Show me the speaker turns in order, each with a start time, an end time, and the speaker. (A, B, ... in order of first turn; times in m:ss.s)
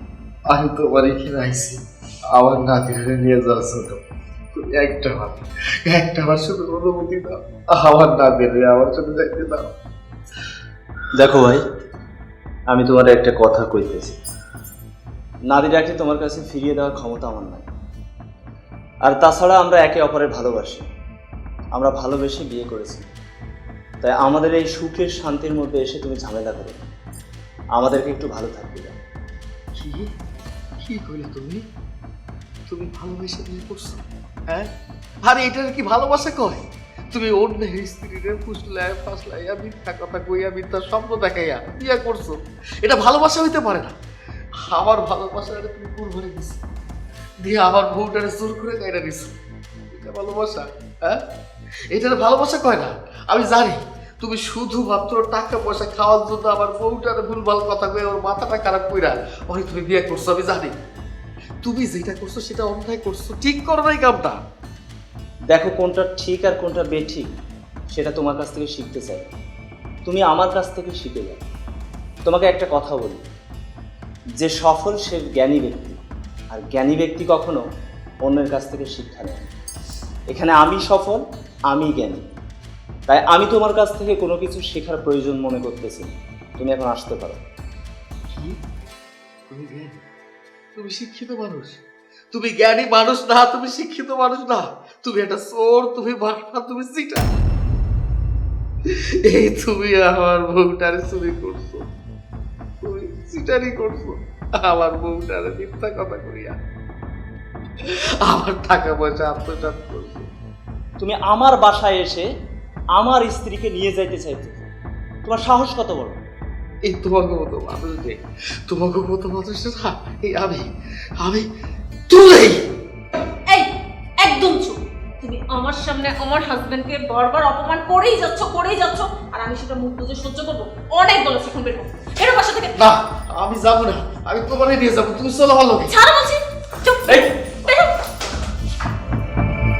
0:00.5-0:01.8 A
0:02.4-0:04.0 A
0:04.5-0:09.7 A
0:11.2-0:11.6 B
0:12.7-0:14.2 B
0:15.5-0:17.6 B
0:19.0-0:20.8 B
0:21.7-0:23.0 B
0:24.0-0:26.8 B
0:27.8-0:28.9 B
0:29.8-0:30.1 A
0:30.8-0:31.6 A
0:32.7-0:34.7 A
0:35.2-0:43.9 A
0:44.7-0:46.6 A
0:47.4-0:49.4 A
0:49.9-0:51.2 A
0:51.9-1:00.7 A
1:01.6-1:04.4 A
1:05.5-1:07.2 B
1:07.9-1:09.2 B
1:10.0-1:11.4 B
1:12.2-1:13.2 B
1:14.4-1:16.0 B
1:16.5-1:17.6 B
1:18.2-1:19.4 B
1:20.3-1:22.2 B
1:23.1-1:27.4 B
1:28.3-1:28.6 A
1:29.5-1:30.1 A
1:30.8-1:31.8 A
1:32.3-1:37.2 A
1:39.2-1:41.8 A
1:42.8-1:46.6 A
1:48.2-1:50.3 A
1:51.0-1:52.2 B
1:52.9-1:54.6 B
1:55.2-1:56.2 B
1:56.8-2:00.6 A
2:01.2-2:01.4 A
2:02.1-2:02.6 A
2:04.2-2:12.8 C
2:12.8-2:16.0 A
2:15.9-2:17.9 C